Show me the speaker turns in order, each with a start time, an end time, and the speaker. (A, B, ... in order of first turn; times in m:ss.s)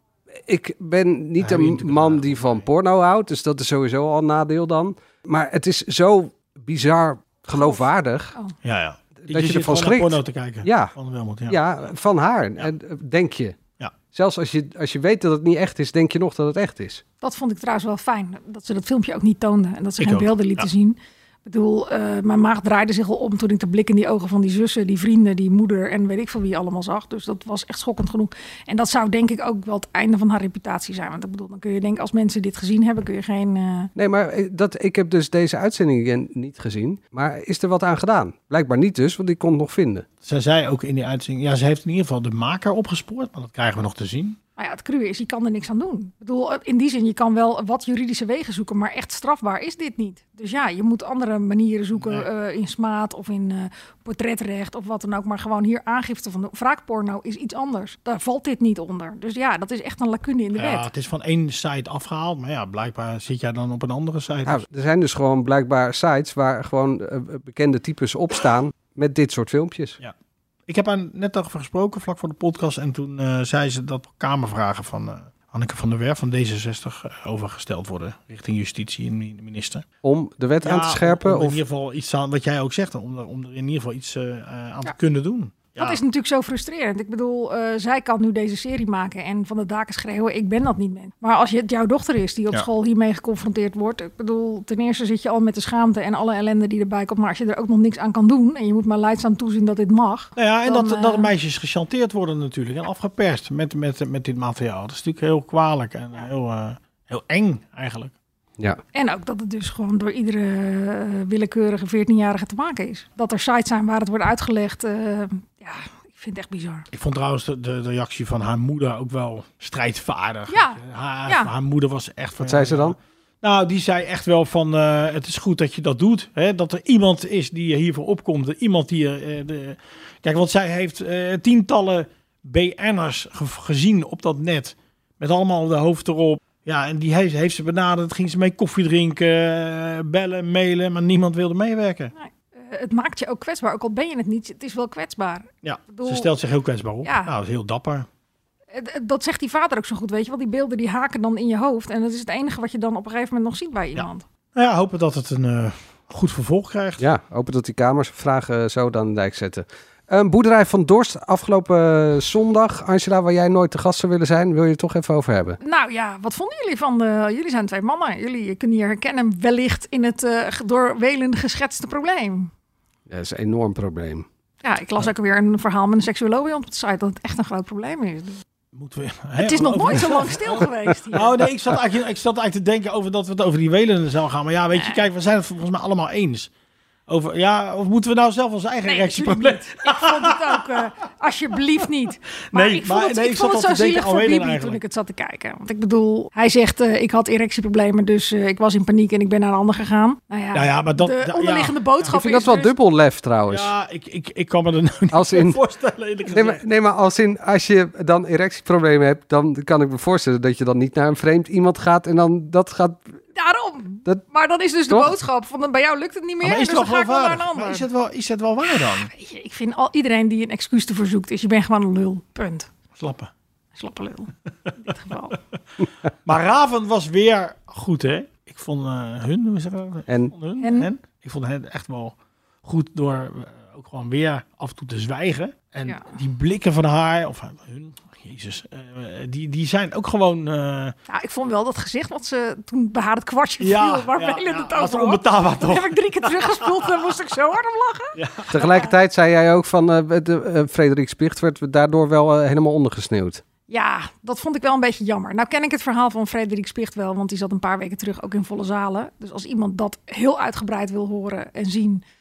0:00.4-0:08.3 A
0:01.4-0:02.6 B
0:08.6-0:11.6 B
0:09.3-0:10.9 A
0:11.5-0:13.6 A
0:14.1-0:17.0 A
0:17.2-0:33.9 C
0:20.0-0:20.7 B
0:34.0-0:40.0 A
0:40.2-0:44.4 B
0:44.6-1:00.9 C
0:52.0-0:52.2 B
1:00.5-1:04.6 B
1:04.4-1:10.0 A
1:10.7-1:19.8 B
1:20.0-1:21.6 A
1:20.6-1:26.0 B
1:25.8-1:41.3 C
1:40.4-1:48.1 B
1:48.9-1:56.9 C
1:56.9-2:22.1 B
2:00.5-2:01.5 C
2:02.4-2:03.0 A
2:22.1-2:26.3 C
2:25.6-2:28.1 B
2:27.0-2:27.3 C
2:28.7-2:34.2 C
2:34.0-2:37.0 B
2:37.0-2:45.6 A
2:45.6-2:52.5 C
2:53.1-2:54.2 A
2:54.6-2:58.4 C
2:58.7-3:06.5 B
2:59.4-3:01.3 C
3:04.7-3:05.0 C
3:07.1-3:10.6 B
3:08.8-3:22.7 C
3:12.5-3:14.8 B
3:20.5-3:22.1 B
3:22.1-3:23.7 A
3:23.5-3:26.6 B
3:25.1-3:25.6 A
3:26.3-3:33.1 A
3:33.3-3:37.8 C
3:36.4-3:39.1 B
3:38.7-3:42.7 C
3:43.0-3:43.3 B
3:43.8-3:45.4 C
3:46.2-4:00.9 B
3:50.1-3:50.3 A
3:50.6-3:50.9 C
3:55.8-3:56.1 C
4:01.1-4:08.9 C
4:03.6-4:06.9 B
4:08.2-4:08.6 B
4:08.5-4:13.4 A
4:13.7-4:22.0 C